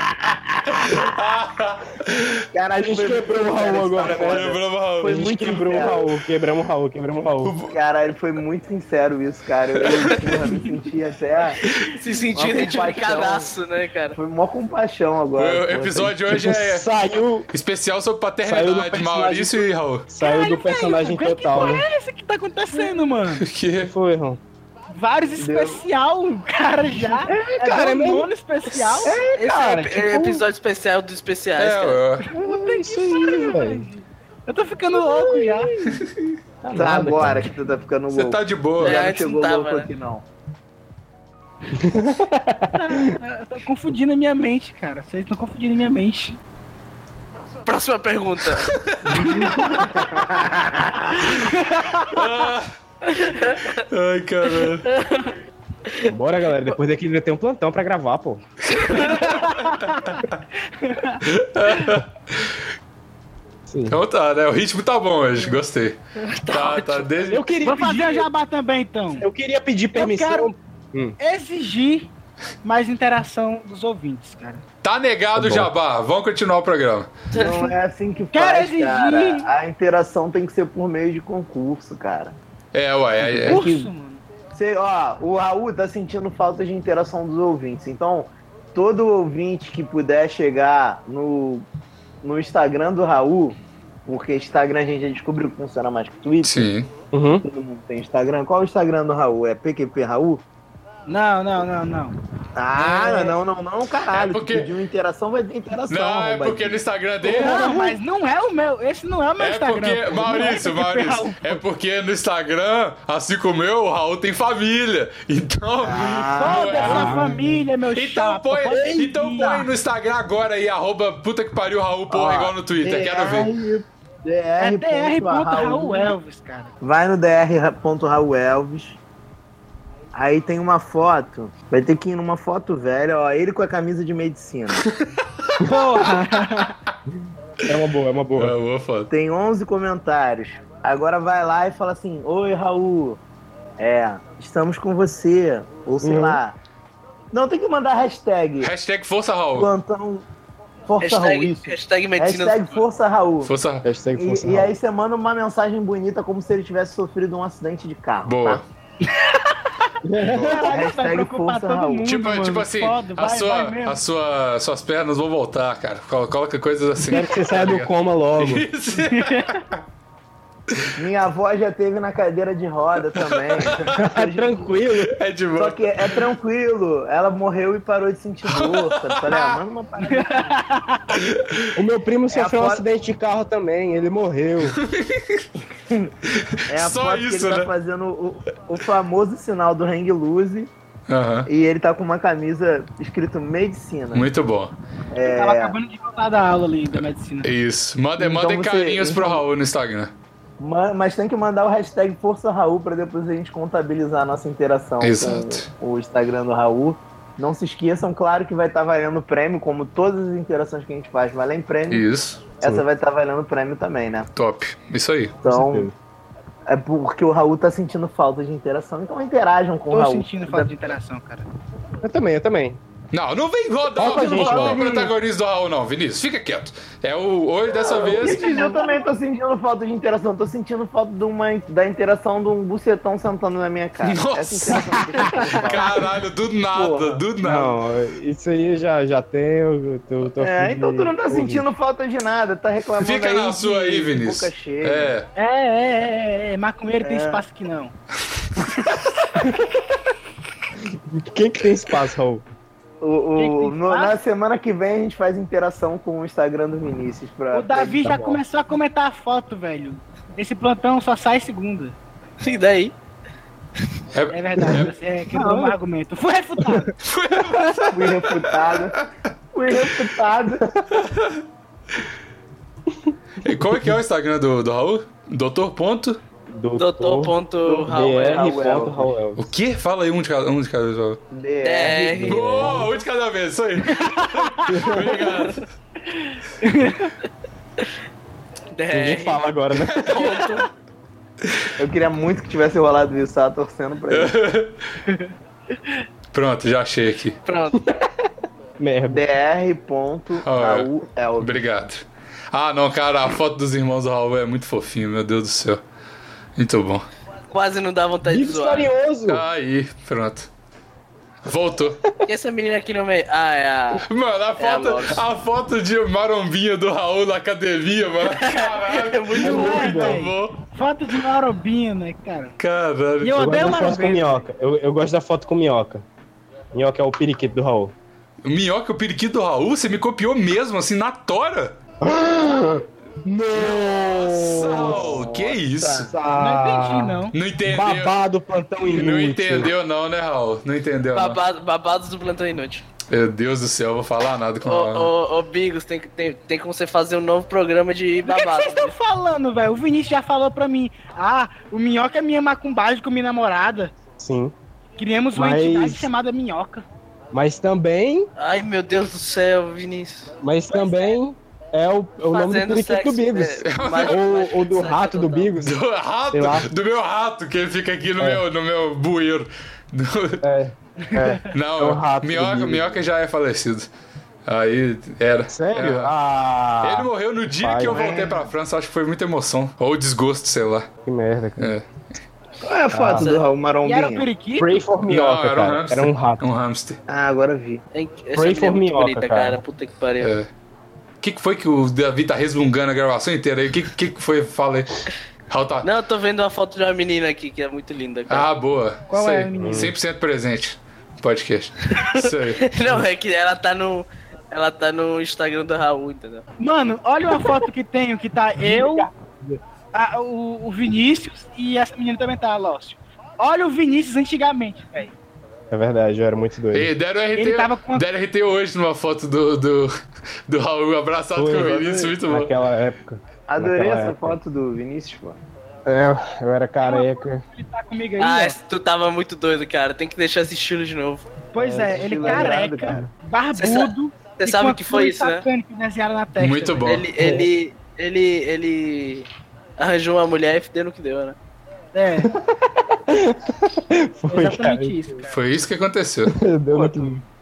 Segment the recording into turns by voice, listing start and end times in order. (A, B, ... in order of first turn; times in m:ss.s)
0:00.8-0:02.4 A
0:02.5-0:06.1 B
0:02.7-0:07.5 C
0:04.2-0:05.3 A
0:07.4-0:07.8 A
0:07.7-0:11.6 B
0:09.8-0:10.5 A
0:11.8-0:14.2 D
0:12.3-0:13.5 B
0:14.1-0:16.2 B
0:15.4-0:16.9 A
0:16.3-0:17.5 C
0:17.5-0:20.1 A
0:18.4-0:21.8 C
0:20.2-0:23.4 E
0:23.3-0:23.9 A
0:23.8-0:24.4 C
0:24.9-0:30.2 E
0:25.4-0:25.8 B
0:27.0-0:28.3 C
0:29.0-0:29.4 C
0:29.0-0:29.4 B
0:29.4-0:32.0 D
0:31.6-0:32.3 A
0:32.3-0:35.7 E
0:32.3-0:33.9 C
0:35.0-0:36.0 C
0:36.6-0:40.2 B
0:36.7-0:37.5 C
0:38.1-0:39.0 A
0:38.8-0:39.9 D
0:41.7-0:43.2 C
0:42.7-0:46.4 E
0:47.6-0:48.7 D
0:48.6-0:49.5 A
0:49.7-0:50.8 B
0:51.4-0:52.2 E
0:52.0-0:52.7 A
0:53.1-0:53.8 D
0:53.9-0:54.9 A
0:54.5-0:55.4 D
0:56.1-0:58.4 C
0:58.7-1:00.2 A
0:58.9-1:01.2 E
1:01.2-1:02.6 A
1:03.7-1:04.0 C
1:03.9-1:06.0 A
1:06.2-1:07.1 D
1:06.5-1:07.4 A
1:07.3-1:08.3 C
1:07.6-1:09.3 E
1:09.2-1:11.2 C
1:09.9-1:10.5 E
1:11.2-1:12.1 E
1:12.6-1:14.6 E
1:14.8-1:17.1 A
1:15.4-1:15.7 C
1:17.3-1:17.8 D
1:17.3-1:22.4 B
1:18.3-1:19.5 E
1:22.7-1:23.6 A
1:23.4-1:23.9 B
1:23.5-1:24.2 E
1:24.5-1:31.7 B
1:32.2-1:36.7 B
1:36.4-1:36.9 A
1:37.1-1:37.4 C
1:37.4-1:40.4 B
1:41.1-1:42.2 E
1:42.6-1:47.9 B
1:42.8-1:43.3 E
1:44.1-1:44.7 A
1:45.9-1:47.8 A
1:47.3-1:51.6 E
1:49.4-1:57.2 A
1:55.8-1:57.3 B
1:56.4-1:59.7 E
1:56.8-1:57.6 C
1:57.8-2:03.5 A
2:02.1-2:06.2 B
2:04.6-2:06.8 E
2:06.8-2:09.0 B
2:10.1-2:14.8 B
2:14.8-2:15.1 A
2:15.7-2:16.8 E
2:17.7-2:18.6 C
2:18.4-2:19.1 A
2:19.1-2:23.2 B
2:23.8-2:26.6 B
2:26.0-2:26.4 C
2:27.3-2:28.7 B
2:28.6-2:29.7 A
2:29.5-2:30.3 B
2:30.9-2:33.5 B
2:31.0-2:32.8 D
2:33.4-2:33.9 A
2:33.8-2:34.8 C
2:34.2-2:38.6 B
2:38.2-2:38.6 A
2:39.0-2:39.7 E
2:40.0-2:40.6 C
2:40.2-2:40.6 A
2:40.4-2:44.0 E
2:40.6-2:42.1 B
2:42.0-2:49.8 A
2:47.0-2:48.7 C
2:49.0-2:49.6 E
2:51.0-2:54.7 B
2:53.2-2:54.0 A
2:53.9-2:55.2 C
2:55.0-2:56.2 A
2:55.6-3:00.6 B
2:58.5-2:59.6 A
3:00.0-3:01.2 E
3:01.2-3:01.7 A
3:01.7-3:04.8 C
3:02.3-3:02.8 B
3:04.7-3:05.5 A
3:06.4-3:07.7 A
3:06.7-3:10.7 B
3:11.1-3:11.5 A
3:11.5-3:14.3 B
3:14.1-3:14.8 A
3:15.1-3:15.8 B
3:15.2-3:17.5 E
3:17.4-3:20.1 A
3:18.2-3:19.4 B
3:20.6-3:34.3 B
3:25.0-3:25.7 A
3:31.9-3:32.6 A
3:34.3-3:35.4 A
3:35.4-3:35.9 B
3:35.4-3:35.9 C
3:36.7-3:41.0 B
3:39.9-3:41.5 E
3:42.0-3:42.8 C
3:43.1-3:48.5 A
3:44.0-3:44.9 C
3:44.2-3:45.1 E
3:44.7-3:45.0 B
3:47.8-3:56.1 B
3:48.0-3:49.1 E
3:54.0-3:57.8 A
3:55.3-3:55.7 E
3:56.7-3:57.2 B
3:57.4-4:01.6 C
4:00.4-4:05.1 B
4:03.0-4:05.3 A
4:05.4-4:07.9 E
4:07.0-4:07.4 B
4:11.1-4:12.4 C
4:13.0-4:18.1 B
4:13.4-4:14.1 E
4:17.5-4:22.0 E
4:18.0-4:18.4 C
4:22.4-4:22.9 D
4:24.1-4:24.9 A
4:24.3-4:26.9 E
4:25.3-4:25.8 C
4:27.0-4:29.1 A
4:27.9-4:28.9 B
4:29.5-4:30.7 B
4:31.0-4:31.4 A
4:33.4-4:36.2 A
4:36.5-4:37.4 C
4:36.8-4:38.8 D
4:37.7-4:39.1 B
4:37.9-4:39.5 C
4:39.4-4:41.2 A
4:41.3-4:42.8 B
4:41.6-4:42.4 D
4:42.2-4:42.9 C
4:42.2-4:45.6 A
4:43.8-4:44.9 E
4:44.7-4:45.1 C
4:45.2-4:45.5 D
4:46.1-4:47.1 E
4:48.7-4:49.4 D
4:48.9-4:50.2 C
4:49.9-4:50.3 A
4:50.0-4:50.7 D
4:51.8-4:54.4 B
4:54.1-4:54.9 A
4:56.3-4:57.4 A
4:57.5-4:57.9 D
4:57.8-4:58.0 C
4:58.8-4:59.2 C
4:59.1-5:01.7 B
5:00.4-5:05.8 A
5:06.6-5:07.1 A
5:07.5-5:08.9 D
5:08.3-5:09.4 C
5:09.3-5:10.5 A
5:11.4-5:12.0 A
5:12.2-5:14.0 D
5:14.0-5:20.6 A
5:14.6-5:15.2 D
5:18.2-5:20.0 D
5:19.4-5:20.2 C
5:19.4-5:22.6 E
5:22.6-5:23.5 A
5:23.2-5:24.3 E
5:23.3-5:26.0 C
5:26.7-5:27.9 C
5:28.4-5:31.8 A
5:32.0-5:35.2 C
5:34.2-5:36.1 A
5:34.4-5:36.1 B
5:36.0-5:39.7 C
5:36.4-5:37.4 E
5:37.3-5:38.2 A
5:38.8-5:41.4 A
5:41.2-5:42.9 D
5:43.1-5:45.1 A
5:44.6-5:48.9 D
5:48.2-5:53.9 E
5:54.2-5:54.5 C
5:55.0-5:56.8 E
5:55.4-5:56.1 C
5:57.3-5:58.3 C
5:58.4-6:01.2 D
6:00.4-6:05.8 C
6:02.3-6:05.5 D
6:03.6-6:04.3 A
6:05.6-6:10.4 A
6:06.3-6:06.7 C
6:10.4-6:13.0 C
6:11.0-6:11.4 E
6:11.5-6:13.9 A
6:14.5-6:16.2 A
6:15.5-6:18.3 C
6:16.8-6:20.9 A
6:17.9-6:18.3 B
6:21.0-6:21.7 C
6:21.6-6:21.8 A
6:22.6-6:24.3 B
6:22.9-6:23.3 C
6:23.2-6:23.5 D
6:23.8-6:24.8 E
6:24.6-6:26.4 C
6:25.1-6:27.0 A
6:27.1-6:27.8 B
6:27.9-6:30.3 D
6:28.3-6:29.6 C
6:30.2-6:30.5 A
6:31.2-6:35.9 A
6:35.8-6:38.5 D
6:38.3-6:43.0 A
6:39.1-6:39.9 E
6:39.6-6:39.9 C
6:41.9-6:46.4 D
6:46.6-6:49.1 E
6:48.6-6:49.6 C
6:49.9-6:55.1 E
6:55.7-6:56.9 C
6:56.7-6:59.9 A
6:57.4-6:58.1 E
7:00.5-7:02.5 A
7:01.4-7:04.4 C
7:03.5-7:05.4 B
7:05.9-7:07.4 C
7:06.8-7:08.6 E
7:08.2-7:11.3 D
7:11.5-7:16.9 E
7:11.6-7:13.1 C
7:11.9-7:13.1 B
7:13.6-7:15.4 D
7:16.4-7:17.1 A
7:16.8-7:21.4 D
7:17.2-7:17.5 C
7:21.9-7:22.3 E
7:23.1-7:25.2 C
7:24.3-7:25.2 E
7:25.3-7:26.3 A
7:26.3-7:27.2 C
7:26.7-7:27.2 B